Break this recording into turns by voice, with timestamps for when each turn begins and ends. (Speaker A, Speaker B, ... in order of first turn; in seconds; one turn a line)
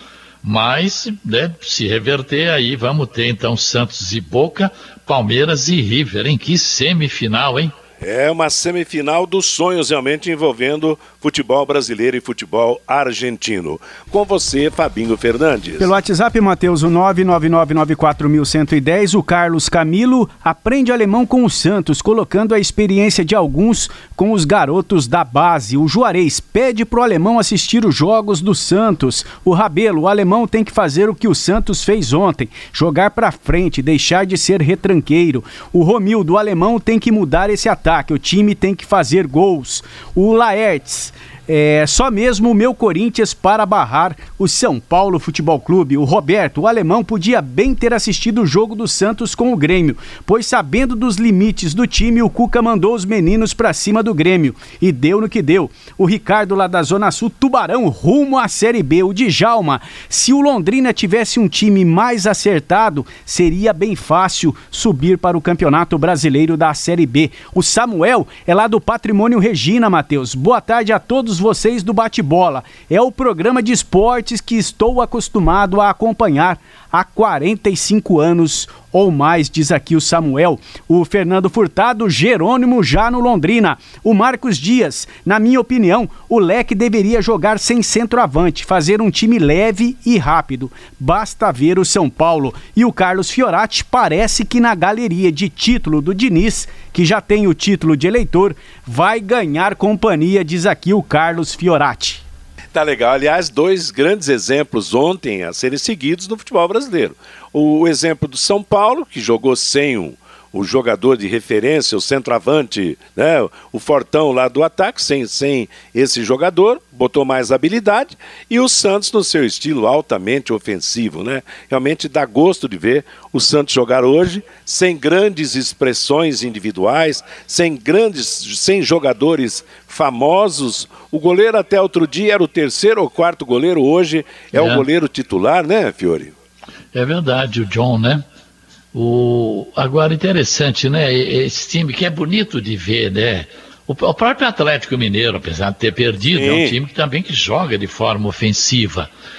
Speaker A: 0.4-7.7
Speaker B: 8.0-15.9
Speaker C: 15.8-102.2
Speaker B: 102.7-136.3
Speaker A: 134.5-134.8
Speaker A: 136.9-138.2
Speaker A: 138.9-149.1
Speaker B: 146.2-146.7